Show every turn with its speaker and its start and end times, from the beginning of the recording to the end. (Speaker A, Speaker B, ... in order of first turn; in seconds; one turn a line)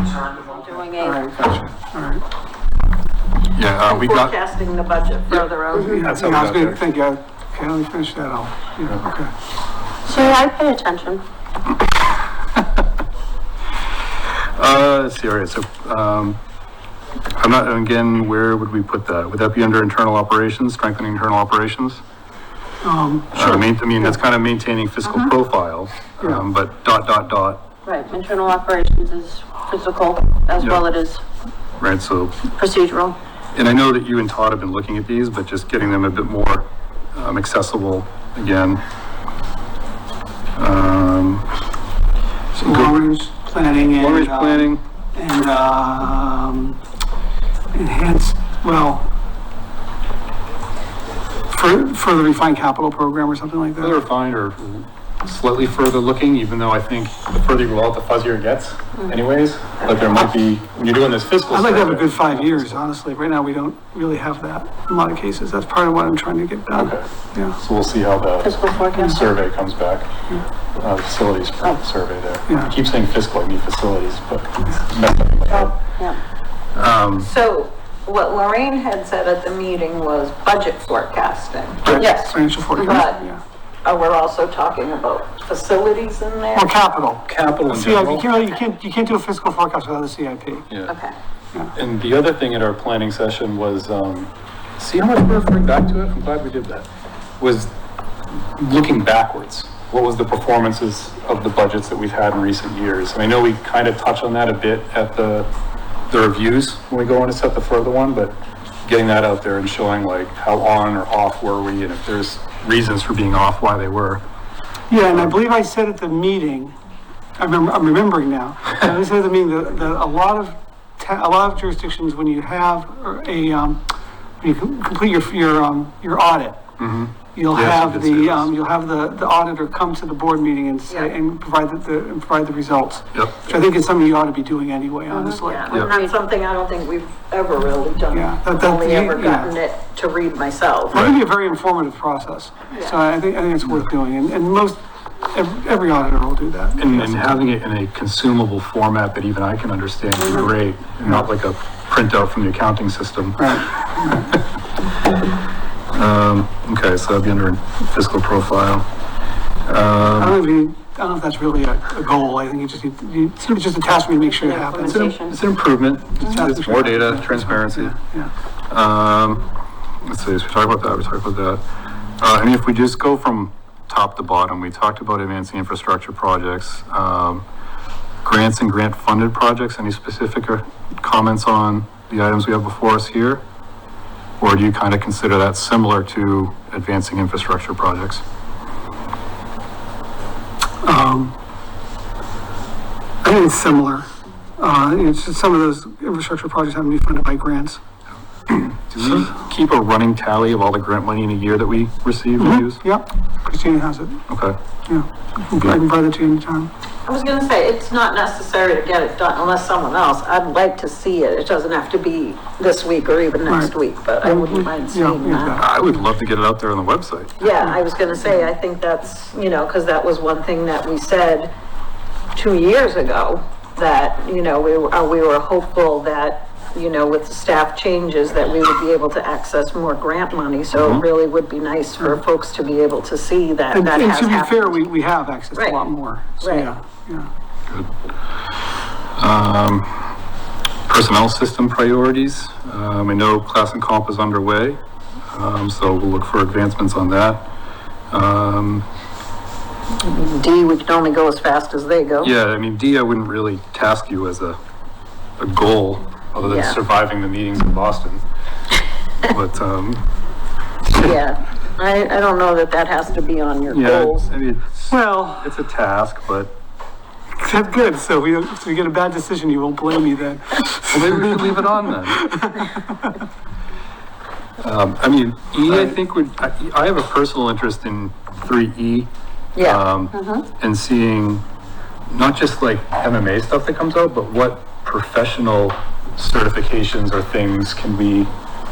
Speaker A: 0.1-1.2
Speaker B: 1.0-2.2
Speaker C: 3.5-4.3
Speaker D: 3.9-6.0
Speaker B: 5.9-9.3
Speaker C: 5.9-6.8
Speaker A: 10.0-11.2
Speaker C: 14.6-16.4
Speaker C: 17.4-22.0
Speaker B: 22.8-24.1
Speaker C: 23.3-27.6
Speaker A: 27.8-31.2
Speaker C: 30.6-30.8
Speaker C: 31.8-32.4
Speaker A: 32.5-33.2
Speaker C: 33.5-38.8
Speaker C: 40.5-41.5
Speaker B: 42.5-46.8
Speaker C: 42.6-43.0
Speaker C: 43.7-44.8
Speaker B: 47.7-49.1
Speaker B: 51.5-54.0
Speaker C: 53.8-62.8
Speaker B: 61.5-67.6
Speaker C: 66.7-70.1
Speaker A: 68.4-69.2
Speaker C: 70.8-75.8
Speaker B: 72.5-72.7
Speaker A: 75.5-76.2
Speaker C: 76.7-77.3
Speaker D: 77.2-83.2
Speaker B: 81.8-83.4
Speaker A: 81.8-83.0
Speaker D: 83.8-86.7
Speaker B: 86.5-90.7
Speaker C: 87.2-88.3
Speaker D: 90.9-91.1
Speaker C: 91.7-96.8
Speaker C: 97.4-97.7
Speaker C: 98.5-105.5
Speaker C: 106.1-114.2
Speaker B: 114.9-116.7
Speaker B: 117.4-123.8
Speaker B: 124.4-126.6
Speaker C: 126.8-128.5
Speaker B: 127.3-135.8
Speaker C: 133.1-133.4
Speaker A: 135.1-136.2
Speaker D: 135.4-141.1
Speaker B: 138.1-139.5
Speaker B: 140.9-147.4
Speaker C: 146.8-153.6
Speaker B: 153.4-154.3
Speaker C: 155.9-158.8
Speaker C: 159.6-160.4
Speaker B: 160.1-165.1
Speaker A: 164.3-165.4
Speaker C: 164.9-167.9
Speaker B: 166.2-168.3
Speaker C: 168.7-169.5
Speaker C: 170.0-171.6
Speaker C: 172.2-177.4
Speaker C: 178.2-183.4
Speaker C: 184.4-188.2
Speaker B: 190.8-191.4
Speaker B: 193.2-194.1
Speaker B: 194.6-197.8
Speaker C: 198.5-202.8
Speaker B: 202.4-204.2
Speaker C: 204.3-204.6
Speaker B: 204.9-206.7
Speaker D: 207.1-215.6
Speaker B: 213.4-215.7
Speaker C: 215.6-217.4
Speaker D: 217.4-221.5
Speaker D: 222.3-234.8
Speaker C: 230.7-231.1
Speaker B: 233.7-237.3
Speaker D: 235.5-235.8
Speaker D: 236.4-236.7
Speaker C: 239.2-240.1
Speaker C: 240.9-244.8
Speaker C: 245.3-247.5
Speaker C: 248.1-248.9
Speaker D: 250.0-252.3
Speaker C: 252.2-254.6
Speaker C: 255.4-258.2
Speaker D: 256.4-256.8
Speaker C: 259.2-260.0
Speaker C: 260.9-261.2
Speaker D: 261.0-264.3
Speaker C: 263.7-266.5
Speaker B: 264.9-265.5
Speaker B: 267.4-273.1
Speaker C: 270.9-272.4
Speaker C: 274.6-281.4
Speaker D: 279.6-280.4
Speaker C: 282.1-288.3